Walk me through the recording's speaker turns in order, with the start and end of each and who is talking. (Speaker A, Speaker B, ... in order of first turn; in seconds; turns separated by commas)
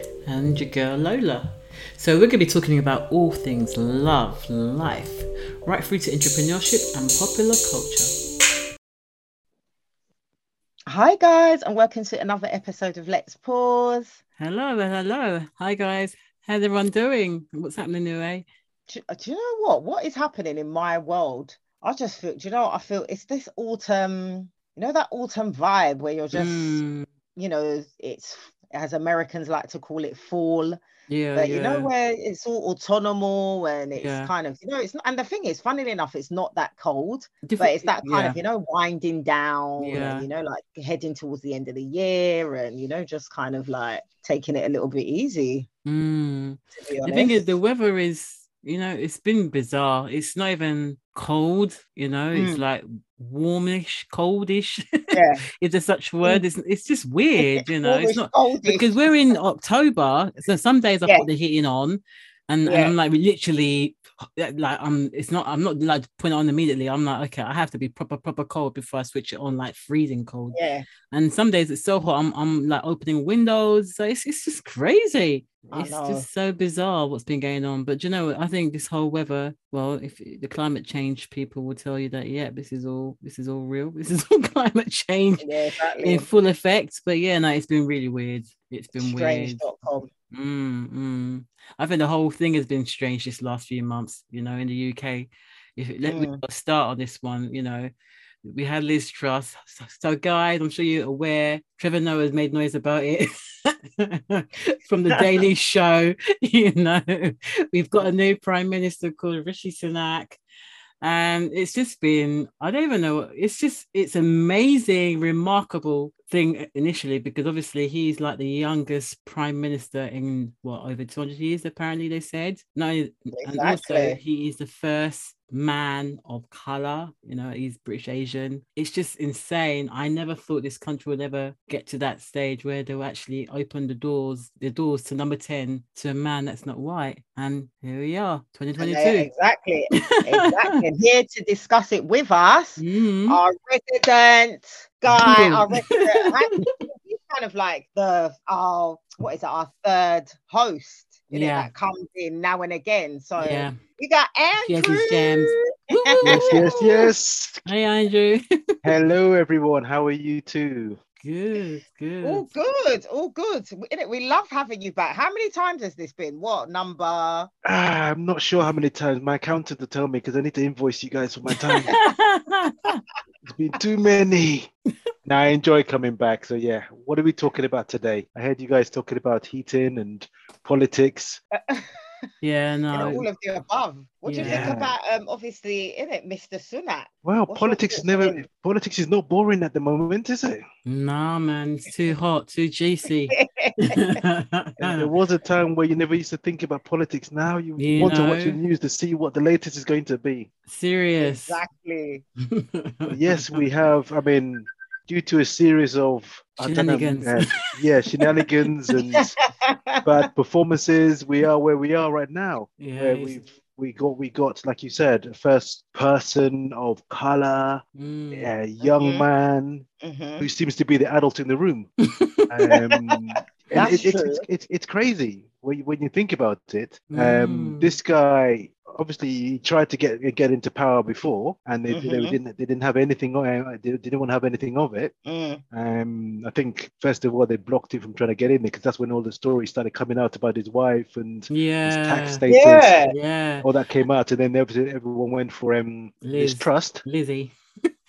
Speaker A: 0.3-8.2, Speaker B: 10.9-14.2, Speaker A: 14.4-18.5, Speaker B: 18.9-26.8, Speaker A: 26.3-27.1, Speaker B: 27.4-30.8, Speaker A: 31.1-31.9, Speaker B: 31.4-45.7, Speaker A: 34.0-34.3, Speaker A: 37.4-38.4, Speaker A: 39.8-40.3, Speaker A: 45.9-70.6, Speaker B: 46.8-47.5, Speaker B: 52.3-52.6, Speaker B: 55.1-55.4, Speaker B: 57.4-59.0, Speaker B: 62.7-62.9, Speaker B: 70.5-70.9, Speaker A: 71.1-85.5, Speaker B: 75.7-76.3, Speaker B: 85.4-86.3, Speaker A: 86.0-89.6, Speaker B: 88.9-90.1, Speaker A: 90.3-97.9, Speaker B: 96.1-96.4, Speaker A: 98.5-110.4, Speaker A: 111.0-139.3, Speaker B: 123.4-124.2, Speaker B: 138.8-156.6, Speaker A: 139.9-140.8, Speaker A: 142.8-143.4, Speaker A: 145.1-146.6, Speaker A: 151.3-151.7, Speaker A: 153.4-153.8, Speaker A: 154.7-156.9, Speaker C: 156.2-157.7, Speaker A: 157.7-158.9, Speaker C: 158.8-161.0, Speaker A: 161.2-162.5, Speaker B: 162.2-167.5, Speaker C: 167.7-172.0, Speaker A: 171.6-173.0, Speaker C: 173.4-174.7, Speaker C: 175.2-181.4, Speaker B: 181.5-182.0, Speaker A: 182.4-183.2, Speaker B: 182.9-188.4, Speaker A: 184.3-184.8, Speaker C: 184.4-184.9, Speaker C: 187.2-190.6, Speaker A: 190.9-195.1, Speaker B: 193.3-194.2, Speaker C: 194.8-200.5, Speaker A: 197.8-198.6, Speaker A: 200.7-201.6, Speaker B: 201.2-202.2, Speaker A: 202.4-203.7, Speaker C: 203.1-209.4, Speaker A: 206.6-207.8, Speaker B: 209.1-210.1, Speaker C: 210.0-219.9, Speaker A: 212.8-213.5, Speaker A: 218.0-218.5, Speaker B: 218.8-219.2, Speaker B: 220.0-220.5, Speaker C: 220.4-221.9, Speaker A: 222.0-222.4, Speaker C: 222.5-235.1, Speaker B: 222.7-223.0, Speaker B: 223.7-224.4, Speaker A: 227.1-227.9, Speaker B: 231.9-232.4, Speaker B: 235.3-235.6, Speaker C: 235.7-243.0, Speaker A: 241.5-242.4, Speaker B: 242.5-243.2, Speaker A: 243.1-243.7, Speaker C: 243.6-247.0, Speaker A: 246.2-247.9